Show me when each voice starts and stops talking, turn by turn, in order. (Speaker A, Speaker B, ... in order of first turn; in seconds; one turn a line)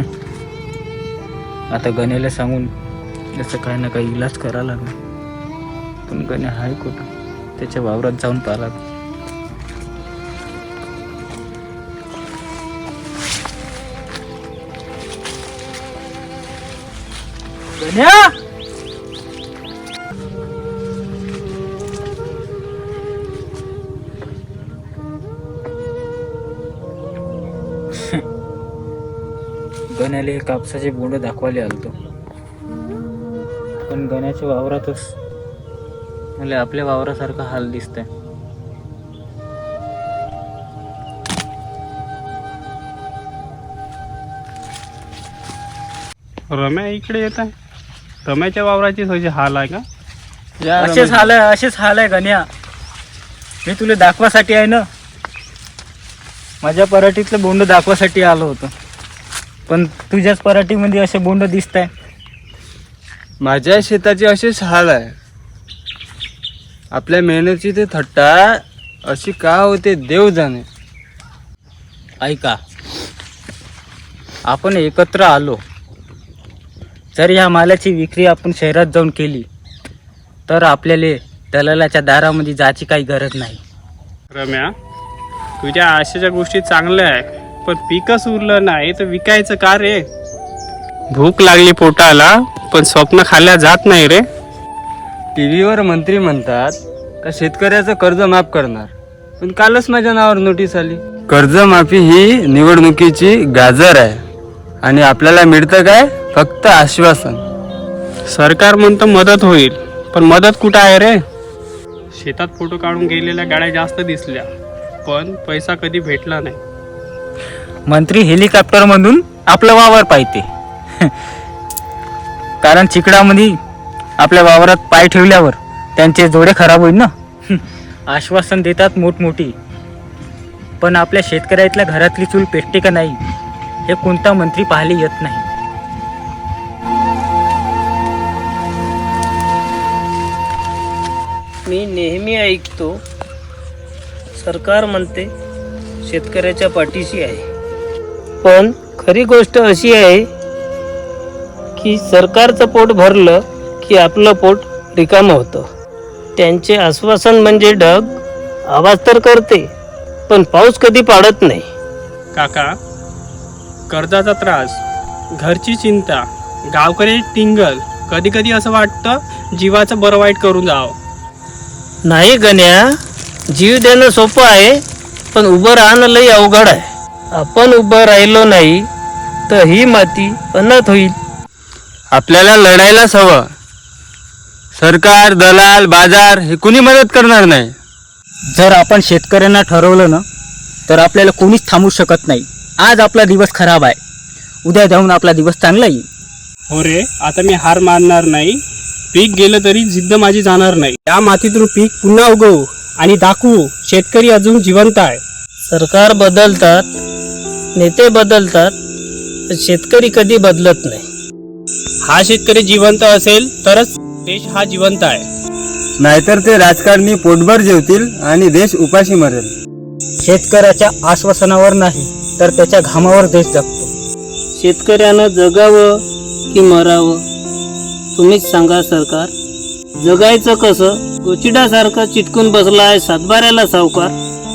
Speaker A: 1.7-2.7
Speaker A: 3.4-5.0
Speaker A: 6.1-8.8
Speaker A: 17.8-18.3
Speaker A: 29.9-31.9
Speaker A: 33.9-35.1
Speaker A: 36.4-38.1
Speaker B: 46.5-47.5
Speaker B: 48.2-49.8
Speaker C: 50.6-51.3
Speaker A: 50.8-52.5
Speaker A: 53.6-54.8
Speaker A: 56.6-58.7
Speaker A: 59.7-61.9
Speaker C: 63.4-65.1
Speaker C: 66.9-70.7
Speaker A: 72.2-72.6
Speaker A: 74.5-75.6
Speaker A: 77.2-79.5
Speaker A: 80.5-83.6
Speaker B: 84.3-84.7
Speaker B: 85.6-90.0
Speaker B: 91.1-94.2
Speaker C: 95.3-104.2
Speaker C: 104.8-107.4
Speaker B: 108.3-111.2
Speaker B: 112.1-114.5
Speaker B: 115.0-116.6
Speaker A: 117.9-120.5
Speaker A: 122.6-123.6
Speaker A: 124.2-129.6
Speaker A: 130.8-133.2
Speaker A: 133.9-135.5
Speaker D: 141.7-142.9
Speaker D: 144.4-145.3
Speaker D: 146.1-147.4
Speaker D: 148.4-150.2
Speaker D: 151.8-155.7
Speaker D: 156.4-158.1
Speaker D: 158.7-159.6
Speaker D: 160.3-161.7
Speaker B: 162.3-162.7
Speaker B: 163.9-164.8
Speaker B: 165.4-171.0
Speaker D: 172.1-172.8
Speaker D: 173.5-174.8
Speaker D: 175.3-178.8
Speaker D: 179.5-181.1
Speaker C: 182.1-183.4
Speaker C: 184.8-187.7
Speaker A: 188.6-190.2
Speaker A: 190.9-194.0
Speaker A: 194.7-196.1
Speaker B: 196.7-198.6
Speaker B: 199.1-205.2
Speaker D: 205.7-206.9
Speaker D: 207.8-208.7
Speaker D: 209.5-211.1
Speaker B: 212.0-215.3
Speaker C: 216.0-219.5
Speaker A: 220.2-223.9
Speaker D: 224.6-225.9
Speaker D: 226.5-227.2
Speaker D: 228.2-229.3
Speaker D: 230.0-234.1